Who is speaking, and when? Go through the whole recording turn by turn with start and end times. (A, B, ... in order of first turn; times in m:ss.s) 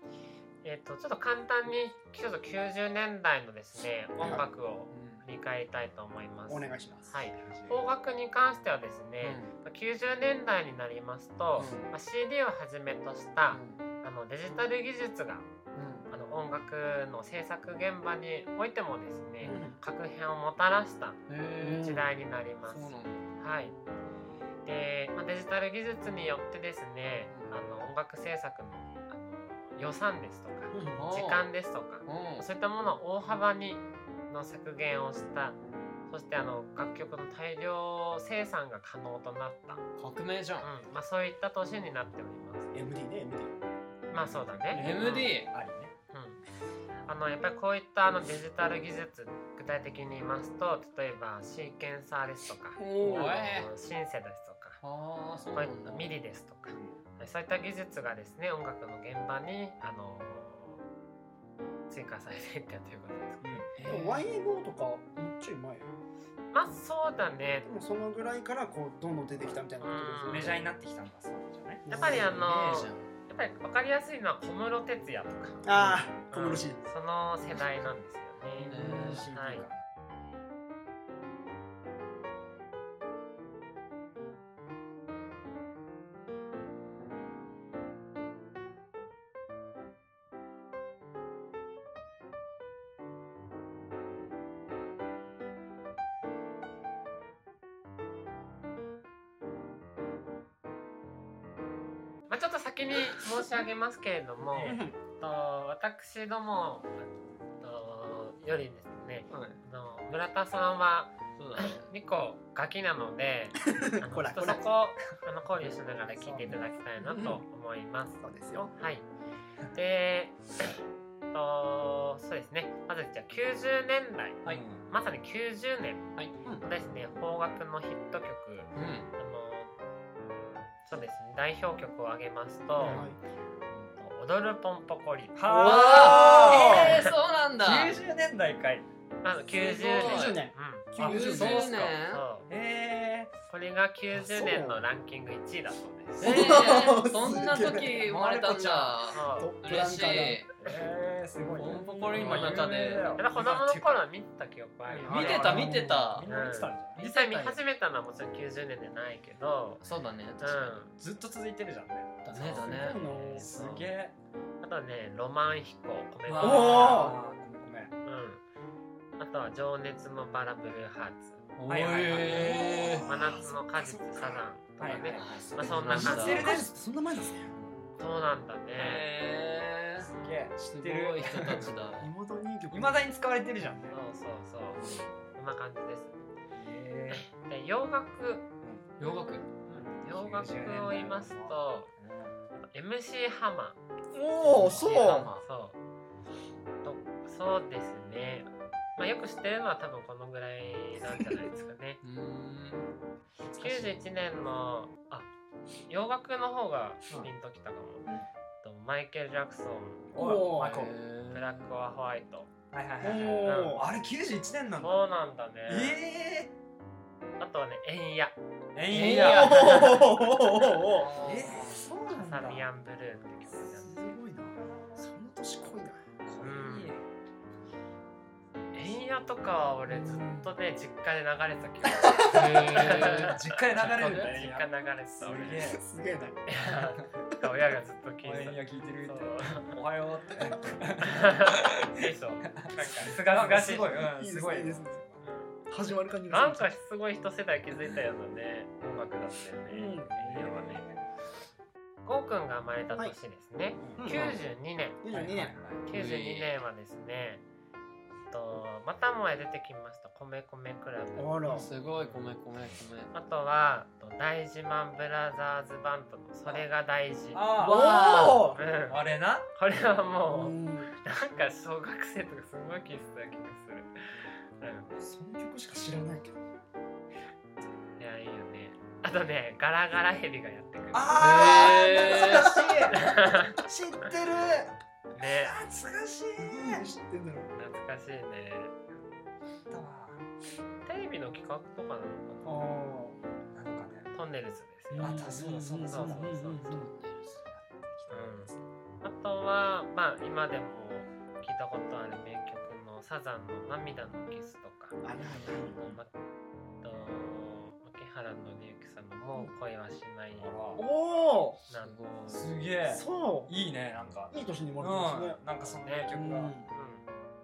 0:00.6-0:15.5 A
0:04.2-0:04.4 B
0:04.9-0:05.2 C
0:06.5-0:07.1 B
0:07.4-0:07.8 D
0:09.2-0:09.5 C
0:11.5-0:11.9 C
0:13.5-0:13.8 C
0:15.7-0:16.1 C
0:16.1-0:21.2 A
0:19.4-0:19.8 B
0:21.3-0:22.0 C
0:21.6-0:22.0 B
0:21.8-0:23.8 A
0:22.6-0:23.3 C
0:24.6-0:35.6 A
0:27.3-0:27.6 C
0:30.7-0:31.1 B
0:30.9-0:31.5 C
0:32.0-0:32.5 C
0:36.1-0:39.8 A
0:40.0-0:40.7 C
0:40.6-0:42.7 A
0:42.7-0:43.5 B
0:44.1-0:45.3 A
0:44.2-0:45.9 D
0:44.7-0:45.5 C
0:46.1-0:46.4 A
0:47.1-0:54.8 A
0:52.8-0:53.7 C
0:54.8-0:56.1 C
0:55.5-1:00.8 A
1:01.9-1:03.7 A
1:03.4-1:03.7 D
1:03.8-1:04.2 C
1:03.8-1:05.9 B
1:06.5-1:07.7 A
1:07.6-1:10.6 B
1:09.8-1:10.5 A
1:10.3-1:11.8 D
1:11.8-1:12.4 B
1:11.9-1:15.6 A
1:11.9-1:13.1 C
1:15.6-1:16.8 B
1:16.3-1:19.6 A
1:18.6-1:19.2 C
1:18.9-1:19.7 D
1:42.3-1:59.0 A
1:44.6-1:45.0 B
1:49.3-1:49.6 C
1:51.4-1:51.9 C
1:53.6-1:54.6 B
1:56.0-1:56.6 D
1:57.0-1:57.4 B
1:58.2-1:58.7 B
1:59.7-2:00.7 A
2:01.3-2:09.7 A
2:04.4-2:04.8 D
2:08.7-2:09.1 C
2:10.8-2:13.0 A
2:12.7-2:13.2 B
2:13.9-2:15.4 A
2:15.3-2:17.0 D
2:15.4-2:16.9 B
2:15.6-2:18.0 C
2:16.6-2:17.1 A
2:17.6-2:18.8 D
2:19.2-2:22.5 A
2:19.8-2:20.4 C
2:19.8-2:21.8 B
2:21.0-2:22.2 C
2:22.5-2:23.3 D
2:23.5-2:26.6 A
2:24.1-2:24.8 B
2:26.2-2:30.5 C
2:26.2-2:28.1 B
2:27.4-2:29.0 D
2:29.1-2:29.5 A
2:29.4-2:30.4 B
2:30.6-2:34.0 D
2:31.5-2:33.2 C
2:32.1-2:32.5 A
2:33.2-2:35.6 A
2:34.8-2:37.0 D
2:35.1-2:36.3 C
2:35.2-2:36.1 B
2:36.3-2:39.8 A
2:37.0-2:37.6 C
2:39.8-2:40.8 C
2:40.4-2:40.9 A
2:41.0-2:44.1 D
2:42.3-2:43.1 C
2:42.3-2:43.5 B
2:42.6-2:43.9 A
2:44.6-2:47.0 A
2:46.3-2:47.0 C
2:46.4-2:47.2 B
2:46.4-2:47.9 D
2:48.0-2:48.4 A
2:49.2-2:51.4 A
2:51.6-2:53.0 C
2:51.7-2:53.4 D
2:52.3-2:54.5 B
2:53.0-2:56.5 A
2:54.8-2:56.7 D
2:55.1-2:56.5 C
2:55.9-2:57.5 B
2:58.0-2:59.1 A
2:58.7-3:00.1 C
3:00.1-3:01.8 D
3:00.7-3:02.1 C
3:02.0-3:03.1 B
3:02.7-3:04.0 D
3:03.9-3:04.8 A
3:04.8-3:05.1 D
3:05.3-3:06.2 A
3:06.5-3:07.3 D
3:07.1-3:08.4 A
3:09.0-3:09.5 C
3:09.7-3:12.3 D
3:10.0-3:11.9 A
3:12.5-3:13.8 A
3:14.1-3:15.3 B
3:14.4-3:15.4 C
3:14.7-3:15.8 A
3:16.8-3:22.0 A
3:22.0-3:22.9 C
3:23.6-3:25.3 A
3:23.6-3:23.9 C
3:25.9-3:28.1 A
3:28.6-3:30.1 A
3:30.1-3:30.9 D
3:30.1-3:30.9 B
3:30.5-3:31.7 C
3:31.3-3:32.5 A
3:32.7-3:35.0 D
3:33.0-3:33.9 B
3:33.4-3:33.8 A
3:34.8-3:36.0 A
3:35.7-3:36.5 D
3:37.4-3:38.4 A
3:38.7-3:40.0 D
3:38.9-3:40.0 C
3:39.0-3:41.2 B
3:39.4-3:40.0 A
3:41.0-3:41.8 C
3:41.2-3:42.6 D
3:42.1-3:44.1 A
3:42.3-3:42.6 B
3:43.5-3:46.1 B
3:46.2-3:47.0 D
3:46.4-3:46.9 A
3:48.7-3:55.6 A
3:49.9-3:50.5 B
3:52.0-3:52.9 B
3:52.3-3:54.3 C
3:52.5-3:55.8 D
3:54.0-3:54.2 B
3:55.7-3:56.6 B
3:56.5-3:59.7 A
3:58.2-4:05.2 D
4:01.0-4:03.2 A
4:03.2-4:05.0 B
4:05.2-4:05.6 A
4:05.7-4:06.7 B
4:06.3-4:10.9 A
4:09.7-4:10.1 B
4:10.2-4:11.1 D
4:12.0-4:15.0 A
4:14.0-4:14.4 B
4:15.0-4:15.6 B
4:15.1-4:15.8 D
4:15.9-4:17.4 A
4:15.9-4:16.5 C
4:18.3-4:21.3 A
4:21.2-4:21.7 B
4:21.5-4:23.1 C
4:21.9-4:22.2 A
4:23.1-4:27.5 A
4:27.3-4:27.8 D
4:27.6-4:28.5 C
4:27.6-4:28.6 B
4:28.5-4:29.0 A
4:28.8-4:29.5 D
4:29.5-4:34.9 A
4:30.3-4:30.9 B
4:34.9-4:36.4 B
4:38.0-4:41.4 A
4:40.9-4:46.8 D
4:41.2-4:42.6 C
4:41.3-4:43.0 B
4:42.9-4:44.1 A
4:45.1-4:45.6 A
4:46.4-4:47.5 B
4:47.5-4:48.8 A
4:49.7-4:50.2 D
4:50.8-4:52.7 A
4:52.4-4:53.2 B
4:53.5-4:54.1 D
4:54.1-4:56.6 A
4:54.9-4:56.9 B
4:54.9-4:56.2 D
4:56.5-4:57.4 C
4:57.5-4:58.6 D
4:58.1-5:05.0 A
5:05.0-5:05.8 B
5:05.6-5:06.0 D
5:05.7-5:06.1 A
5:06.8-5:10.5 A
5:10.4-5:10.8 D
5:10.8-5:11.6 B
5:11.7-5:12.1 A
5:11.7-5:12.4 C
5:12.3-5:16.6 D
5:12.8-5:13.5 B
5:14.3-5:15.4 B
5:15.6-5:16.1 A
5:16.1-5:16.7 B
5:16.7-5:17.0 A